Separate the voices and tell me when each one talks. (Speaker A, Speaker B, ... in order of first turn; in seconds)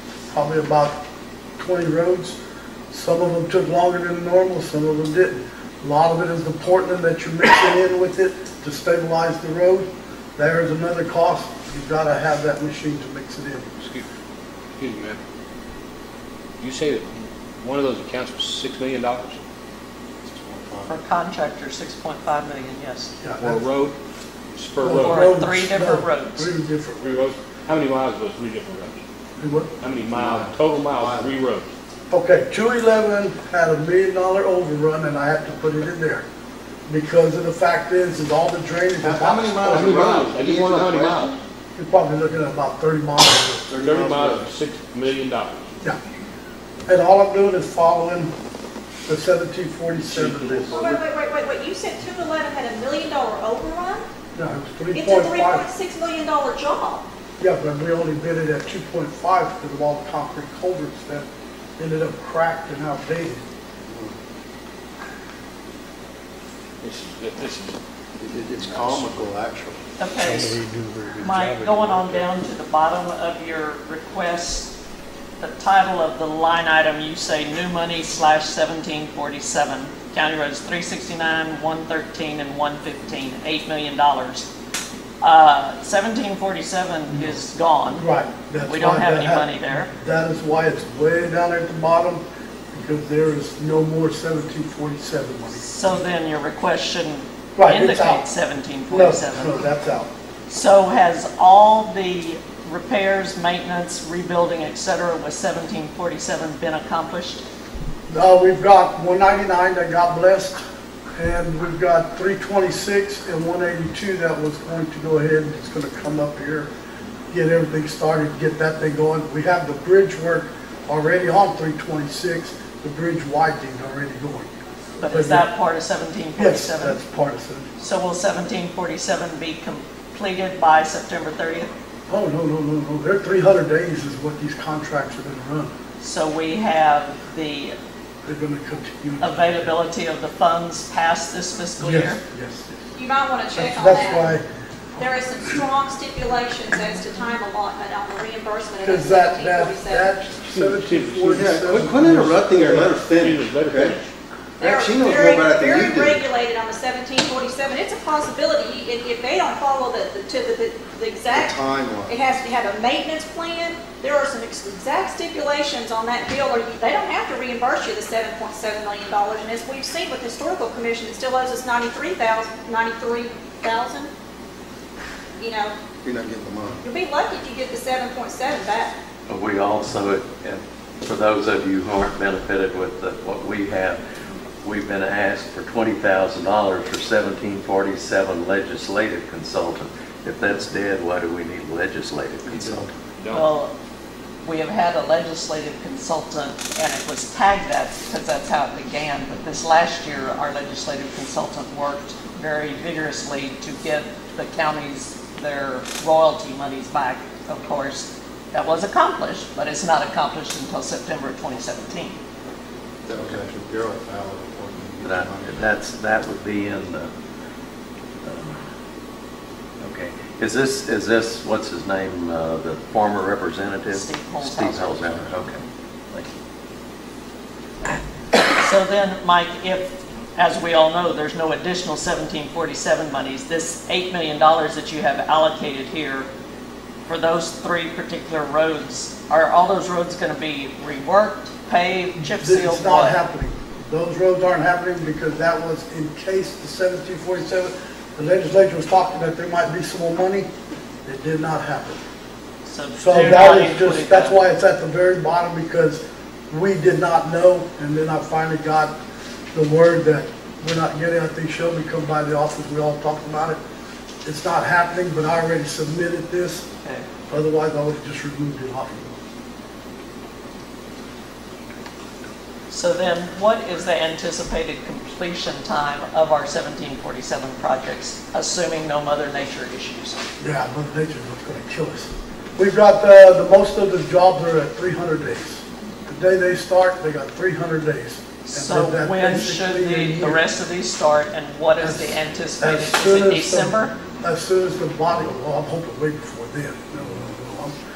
Speaker A: 0.3-0.9, 1.6-2.4, 2.9-13.7, 23.2-23.6, 24.8-27.1, 29.4-29.7, 32.1-36.2, 36.9-39.9, 41.8-44.4, 46.9-48.3, 49.1-51.0, 54.4-55.6, 57.4-61.3, 61.8-63.4, 87.9-96.0, 97.5-98.3, 98.9-100.1, 108.1-110.6, 111.2-116.7, 117.3-124.5, 125.1-125.5, 126.4-127.7, 132.1-135.7, 138.2-139.4, 141.8-142.8, 143.5-144.4, 148.8-152.9, 242.3-250.5, 251.1-252.0, 253.0-258.9, 259.5-263.6, 264.2-266.6, 267.3-269.2, 280.4-290.4, 291.8-297.7
Speaker B: 13.8-14.1, 14.8-15.2, 16.6-19.4, 23.4-23.9, 24.5-25.3, 27.0-29.0, 29.8-31.7, 39.6-41.4, 43.7-45.7, 50.0-50.9, 66.8-67.8, 68.6-69.2, 70.2-72.3, 150.5-154.1, 193.2-193.5
Speaker C: 20.2-20.9, 30.1-31.4, 39.0-41.3, 63.9-64.1, 68.2-69.8, 151.3-153.9, 154.6-156.2, 161.3-162.2, 176.0-176.8, 192.5-192.9, 213.1-215.6
Speaker D: 20.9-23.1, 25.0-26.5, 70.0-70.5, 71.2-74.7, 75.4-84.5, 85.2-88.0, 88.6-89.9, 95.5-99.6, 100.5-107.4, 125.0-127.0, 127.8-131.7, 136.0-137.7, 139.2-142.2, 193.3-193.7, 194.4-212.2, 223.9-225.7, 228.3-236.3, 237.1-243.2, 252.7-254.4, 272.7-280.2, 288.4-293.9
Speaker E: 50.7-54.0, 54.9-57.1, 142.9-144.3, 145.0-150.1, 154.6-174.1, 175.4-175.8, 176.8-178.9
Speaker F: 179.3-184.0, 184.6-192.7, 215.0-217.1, 218.2-218.6, 219.8-226.3